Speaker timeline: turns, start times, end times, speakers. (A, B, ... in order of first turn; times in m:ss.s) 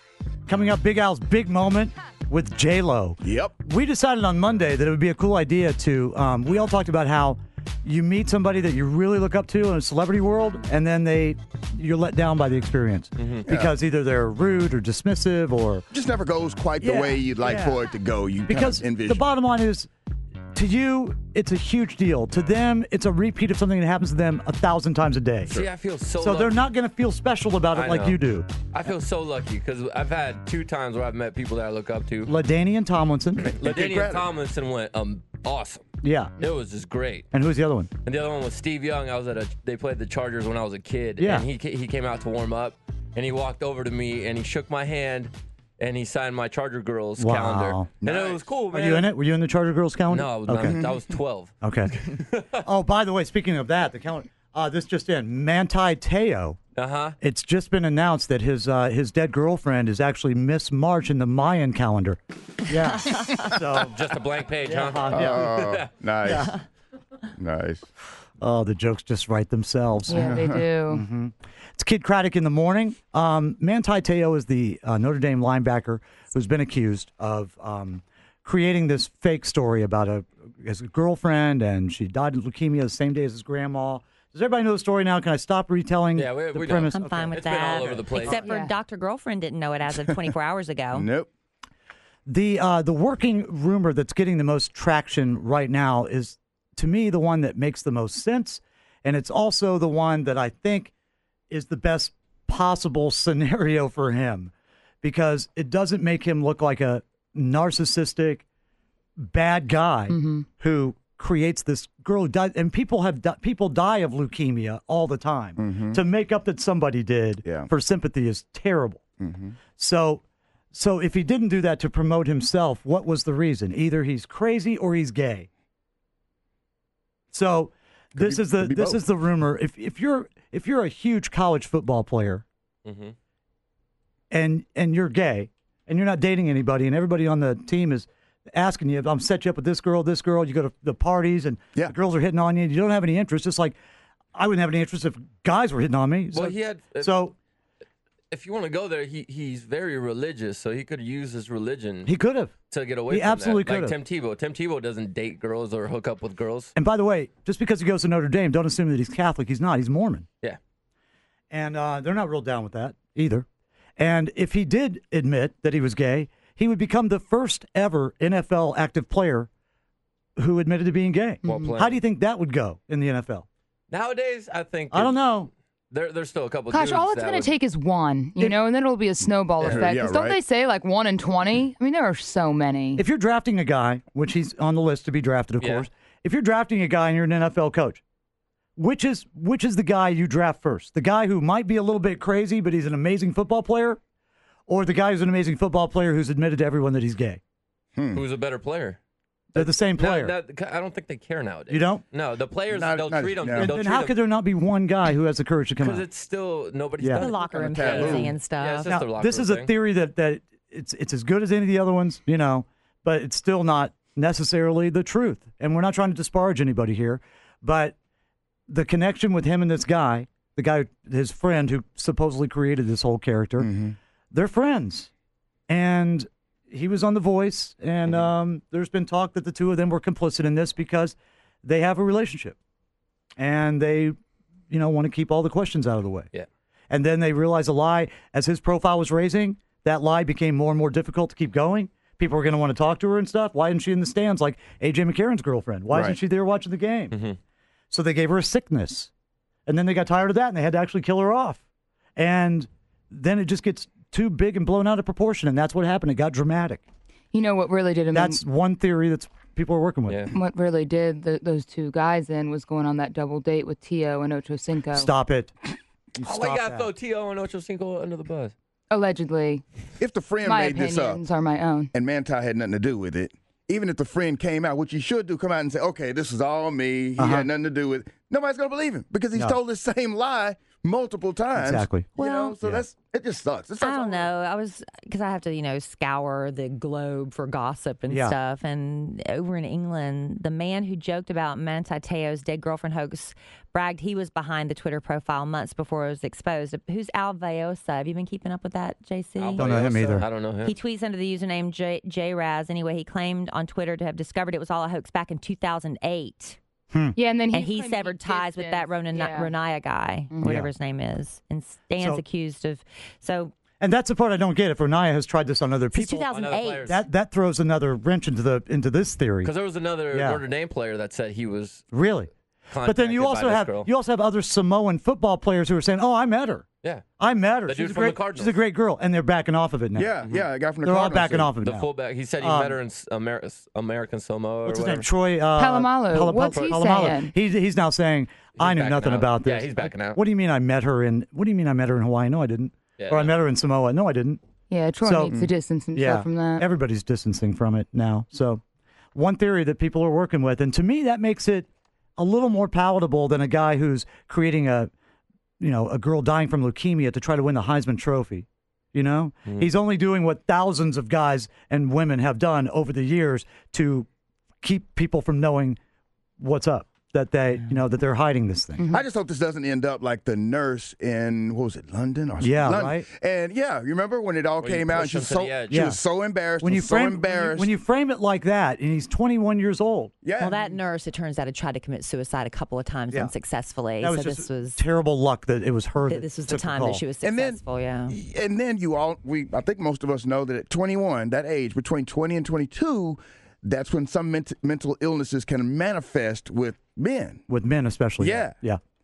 0:00.5-0:15.9 A
0:03.2-0:03.5 B
0:13.2-0:13.5 C
0:13.4-0:13.7 B
0:15.9-0:19.2 B
0:16.8-0:17.8 A
0:18.5-0:19.9 A
0:20.6-0:25.6 A
0:25.5-0:26.6 C
0:26.2-0:28.5 A
0:27.7-0:32.3 C
0:32.3-0:33.5 A
0:33.4-0:34.3 B
0:33.6-0:35.8 C
0:36.0-0:36.3 A
0:36.4-0:37.3 C
0:37.3-0:37.9 A
0:38.0-0:49.1 C
0:41.2-0:41.5 A
0:47.2-0:47.9 A
0:48.0-0:48.5 B
0:48.7-0:50.8 A
0:50.1-0:52.5 C
0:50.6-0:51.0 B
0:51.6-0:51.9 A
0:52.5-0:56.6 A
0:56.8-0:57.2 C
0:57.2-1:04.0 A
1:03.8-1:05.9 C
1:04.7-1:05.5 A
1:05.1-1:06.5 B
1:06.2-1:06.5 A
1:07.4-1:07.8 B
1:08.4-1:10.4 A
1:10.1-1:11.0 D
1:10.2-1:10.6 B
1:10.9-1:28.4 A
1:26.2-1:28.4 C
1:26.9-1:31.1 E
1:28.4-1:28.7 D
1:30.9-1:31.3 B
1:32.3-1:40.9 A
1:41.5-1:44.5 A
1:45.0-1:48.4 A
1:49.2-1:59.0 A
1:50.1-1:50.5 D
1:55.6-1:56.0 B
1:59.2-1:59.6 B
1:59.8-2:00.2 A
2:00.7-2:05.5 A
2:07.3-2:12.4 A
2:08.2-2:09.0 B
2:12.8-2:13.2 C
2:14.3-2:23.8 A
2:24.4-2:27.4 A
2:26.3-2:27.2 C
2:28.3-2:32.1 C
2:32.1-2:32.5 A
2:32.7-2:36.7 C
2:33.1-2:34.0 A
2:36.8-2:40.3 A
2:41.5-2:43.5 A
2:44.0-2:49.5 A
2:50.4-2:53.5 A
2:51.4-2:51.8 D
2:51.4-2:52.0 C
2:53.9-2:55.3 C
2:54.9-2:55.5 A
2:55.9-2:57.6 C
2:56.7-3:03.0 D
2:59.6-2:59.9 C
2:59.7-3:00.4 B
3:03.0-3:08.0 A
3:05.6-3:05.9 C
3:08.8-3:14.0 A
3:14.7-3:17.4 A
3:18.0-3:18.2 B
3:18.1-3:19.0 C
3:19.5-3:20.4 A
3:19.6-3:24.2 C
3:21.7-3:22.0 A
3:22.7-3:23.8 B
3:23.5-3:26.1 A
3:25.8-3:29.7 C
3:27.0-3:27.3 A
3:27.2-3:28.9 E
3:27.5-3:28.3 B
3:28.9-3:38.0 A
3:38.7-3:43.7 A
3:43.6-3:44.0 B
3:44.3-3:45.1 A
3:45.7-3:52.6 A
3:53.4-3:54.2 A
3:54.7-3:56.3 A
3:56.9-4:07.2 A
4:05.9-4:06.2 B
4:07.1-4:07.4 C
4:07.9-4:09.1 A
4:09.7-4:11.6 A
4:12.2-4:16.8 A
4:17.3-4:18.4 D
4:18.1-4:20.3 A
4:20.3-4:25.1 D
4:24.9-4:25.5 A
4:26.2-4:26.9 A
4:26.2-4:28.5 C
4:28.9-4:29.6 D
4:30.0-4:31.2 B
4:30.4-4:31.9 D
4:31.9-4:44.3 B
4:37.2-4:37.5 A
4:41.6-4:42.1 A
4:42.2-4:42.5 E
4:43.8-4:59.7 E
4:48.1-4:48.4 A
4:59.4-5:00.7 C
4:59.6-5:00.3 A
5:00.6-5:06.6 E
5:06.9-5:07.2 A
5:07.2-5:09.5 D
5:07.5-5:13.5 E
5:10.3-5:10.6 D
5:10.4-5:10.7 A
5:12.0-5:12.2 A
5:13.8-5:16.3 A
5:15.9-5:16.9 E
5:16.3-5:17.0 C
5:16.8-5:19.5 A
5:19.4-5:21.8 C
5:20.1-5:20.4 A
5:21.9-5:22.3 A
5:22.7-5:23.9 C
5:22.8-5:26.6 A
5:27.2-5:30.1 A
5:27.7-5:28.6 C
5:30.0-5:31.5 B
5:30.8-5:32.8 A
5:31.6-5:35.1 C
5:34.6-5:44.4 A
5:35.5-5:37.3 D
5:36.5-5:37.1 C
5:38.6-5:40.2 C
5:43.0-5:43.3 C
5:44.7-5:46.6 D
5:45.0-5:45.4 A
5:46.0-5:48.6 A
5:49.2-5:54.9 A
5:55.6-6:04.1 A
6:04.6-6:05.8 A
6:06.4-6:08.9 A
6:08.9-6:17.7 B
6:12.4-6:13.1 A
6:14.6-6:15.9 C
6:15.7-6:16.0 A
6:16.6-6:20.1 A
6:20.2-6:20.7 B
6:20.4-6:24.8 E
6:24.0-6:27.0 A
6:26.0-6:28.2 E
6:27.2-6:37.4 B
6:37.5-6:38.8 A
6:38.2-6:38.5 B